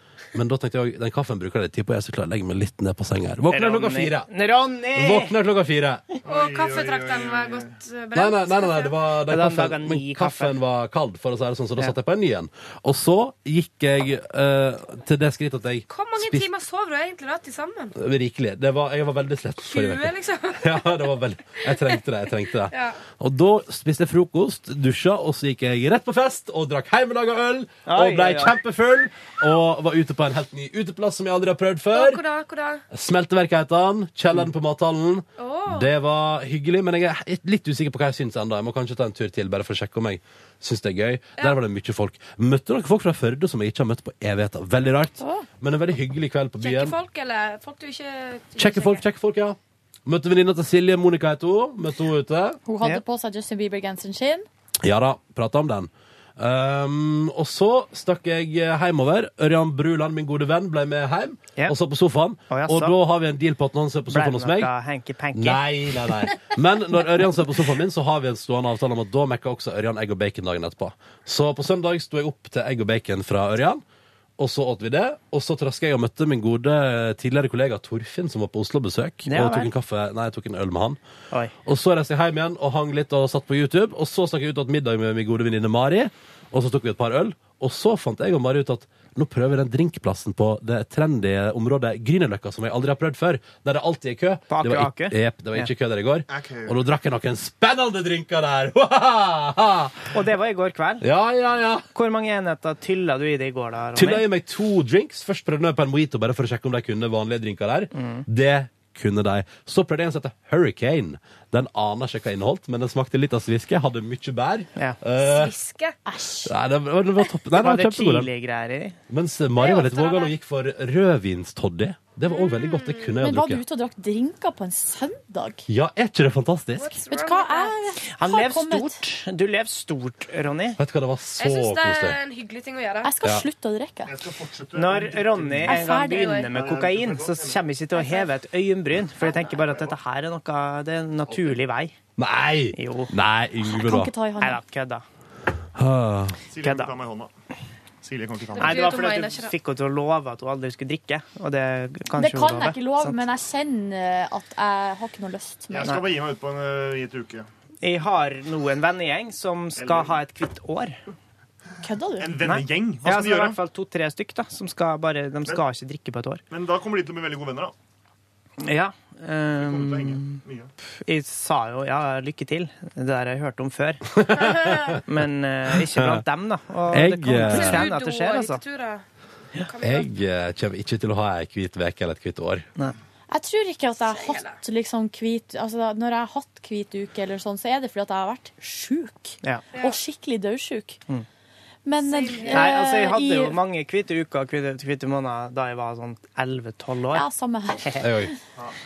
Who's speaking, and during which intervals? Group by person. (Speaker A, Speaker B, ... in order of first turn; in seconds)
Speaker A: 0.3-4.3, 4.9-6.0, 8.1-16.5, 18.0-32.2, 32.9-47.0, 48.6-52.6, 54.8-64.7, 65.3-73.8, 74.4-81.0, 81.7-100.1, 101.0-101.9, 104.0-115.5, 116.4-118.3, 119.1-123.6, 125.7-127.0, 130.8-132.2, 142.2-144.1, 145.8-146.4, 174.2-175.0, 175.8-176.2, 176.9-177.9, 179.8-182.7, 198.0-198.3
Speaker B: 3.5-5.3, 9.3-10.6, 27.9-28.6, 62.5-63.0, 64.1-65.7, 79.3-79.7, 94.5-95.7, 100.1-101.1, 101.9-104.3, 108.0-108.3, 117.6-119.0, 128.1-130.8, 134.7-141.9, 142.7-143.1, 144.4-145.0, 146.6-147.0, 148.6-153.2, 157.8-161.0, 162.4-166.4, 168.6-170.4, 171.1-174.2, 175.1-178.6, 192.5-197.3
Speaker C: 6.2-7.8, 96.3-96.8, 134.1-135.8, 136.5-137.7, 141.3-141.6, 146.5-147.3, 148.0-149.0, 155.7-157.5, 159.8-160.2, 162.2-163.6, 166.5-167.7, 169.6-170.7
Speaker D: 6.3-9.0, 15.9-17.9, 19.6-22.0, 22.7-23.0, 31.9-32.8, 35.4-35.9, 46.6-49.0, 115.2-116.0, 119.6-120.4, 122.3-123.1, 126.8-127.8, 131.4-133.1, 136.1-136.4, 138.0-138.3, 148.5-149.5, 174.4-175.0, 177.5-179.0, 179.6-180.1, 184.1-184.6, 192.0-192.8
Speaker E: 45.2-45.5, 52.7-54.5, 116.1-116.5, 123.2-125.7, 127.1-129.0, 133.0-134.2, 135.7-136.5, 143.7-144.6, 152.2-156.0, 161.8-162.4, 183.3-191.0, 191.8-193.6, 197.1-198.3